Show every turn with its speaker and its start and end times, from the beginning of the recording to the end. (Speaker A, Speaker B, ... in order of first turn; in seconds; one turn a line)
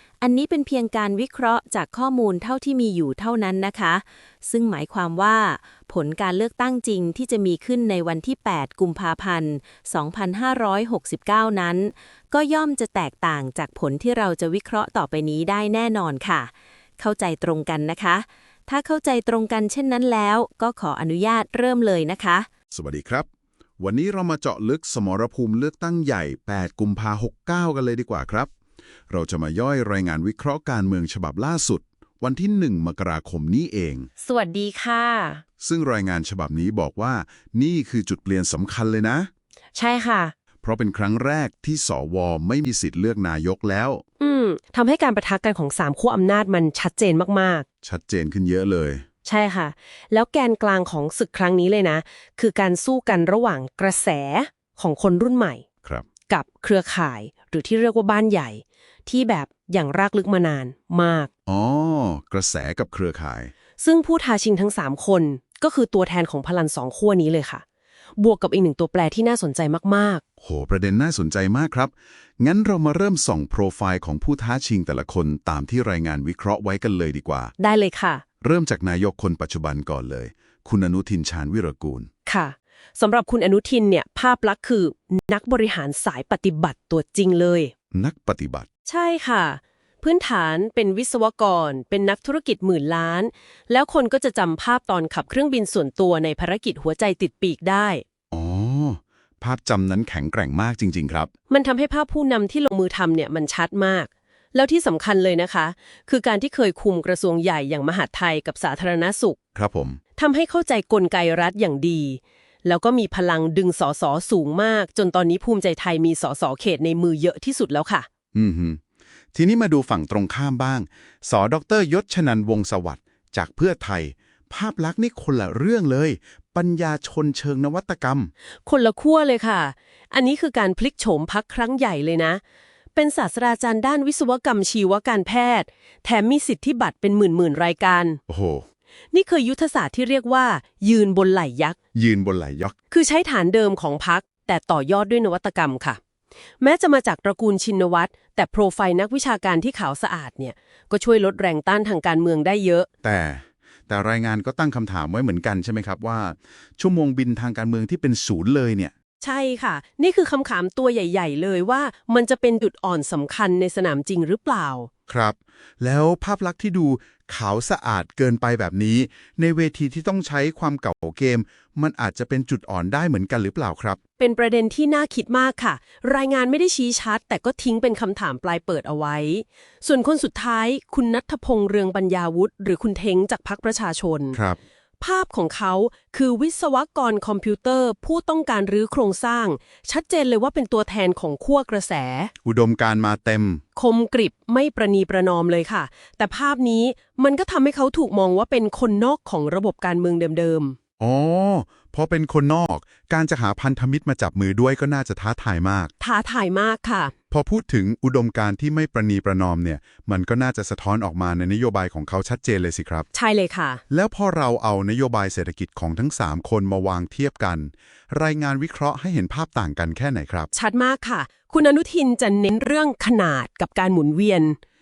Speaker A: 0.2-22.5
Speaker B: 22.7-23.3
Speaker B: 23.8-28.5
Speaker B: 29.1-34.1
Speaker C: 34.2-35.4
Speaker B: 35.6-39.3
Speaker C: 39.7-40.3
Speaker B: 40.6-44.0
Speaker C: 44.2-47.6
Speaker B: 47.8-49.0
Speaker C: 49.2-55.6
Speaker C: 56.3-61.3
Speaker B: 61.5-63.5
Speaker C: 63.8-67.6
Speaker C: 68.2-70.2
Speaker B: 70.4-77.5
Speaker C: 77.6-78.2
Speaker B: 78.4-82.1
Speaker C: 82.2-87.7
Speaker B: 87.9-88.7
Speaker C: 88.8-98.0
Speaker B: 98.3-101.3
Speaker C: 101.5-109.4
Speaker B: 109.5-110.0
Speaker C: 110.2-118.1
Speaker B: 118.3-118.8
Speaker B: 119.3-128.3
Speaker C: 128.7-132.4
Speaker C: 132.9-138.2
Speaker B: 138.3-138.7
Speaker C: 139.1-141.8
Speaker B: 141.9-142.7
Speaker C: 142.9-146.0
Speaker C: 146.6-152.9
Speaker B: 153.0-158.9
Speaker C: 159.2-164.9
Speaker B: 165.1-174.0
Speaker C: 174.2-184.4
Speaker B: 184.3-184.6
Speaker C: 185.0-192.3
Speaker B: 192.4-193.6
Speaker C: 193.8-200.8
Speaker B: 201.0-205.9
Speaker C: 206.0-207.1
Speaker B: 207.3-213.1
Speaker C: 213.1-213.8
Speaker B: 213.9-220.5
Speaker C: 220.5-224.6